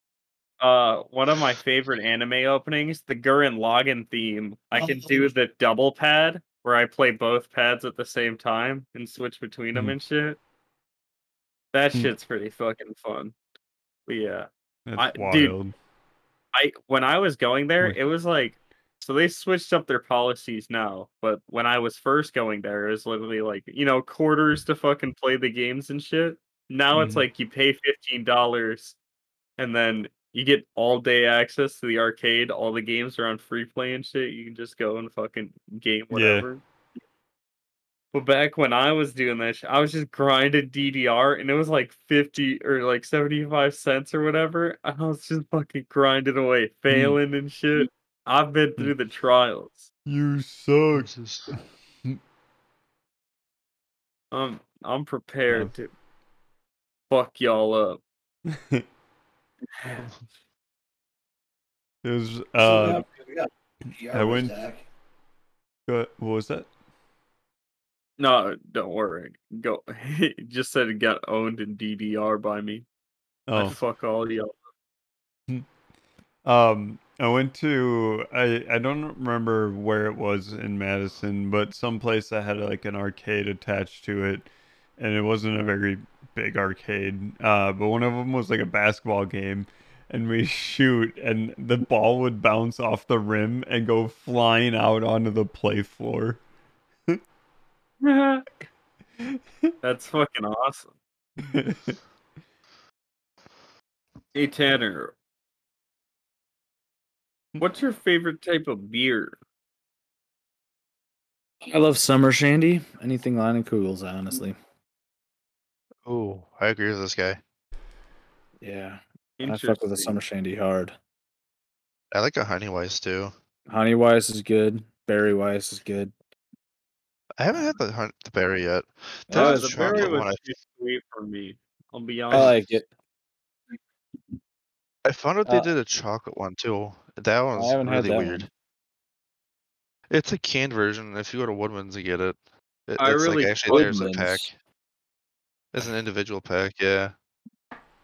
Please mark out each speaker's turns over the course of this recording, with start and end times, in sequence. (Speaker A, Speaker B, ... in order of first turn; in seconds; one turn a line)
Speaker A: 0.6-10.4
Speaker B: 4.8-5.3
Speaker A: 11.7-13.3
Speaker A: 14.1-15.6
Speaker C: 14.9-15.7
Speaker A: 16.5-28.9
Speaker C: 26.9-27.2
Speaker A: 29.6-36.6
Speaker C: 36.1-36.5
Speaker A: 38.1-49.9
Speaker C: 46.9-47.2
Speaker C: 50.0-52.2
Speaker D: 50.9-51.5
Speaker A: 54.3-55.9
Speaker A: 57.1-58.0
Speaker C: 58.5-58.8
Speaker C: 62.0-63.0
Speaker B: 62.6-64.8
Speaker C: 64.1-64.6
Speaker C: 65.9-66.7
Speaker A: 68.2-72.8
Speaker C: 73.5-73.8
Speaker A: 73.5-74.6
Speaker C: 76.4-96.4
Speaker A: 98.0-98.5
Speaker A: 99.8-100.9
Speaker C: 101.4-102.0
Speaker A: 104.3-105.1
Speaker A: 107.6-109.4
Speaker E: 111.7-114.5
Speaker D: 116.0-117.4
Speaker E: 118.6-120.9
Speaker A: 119.4-120.2
Speaker D: 122.1-123.3
Speaker E: 123.7-126.1
Speaker D: 127.4-130.4
Speaker E: 129.3-130.1
Speaker A: 129.3-132.6
Speaker E: 132.3-132.9
Speaker D: 135.0-138.5
Speaker E: 137.5-138.5
Speaker D: 140.1-144.5
Speaker A: 143.0-143.9
Speaker E: 143.7-144.5
Speaker D: 145.7-147.1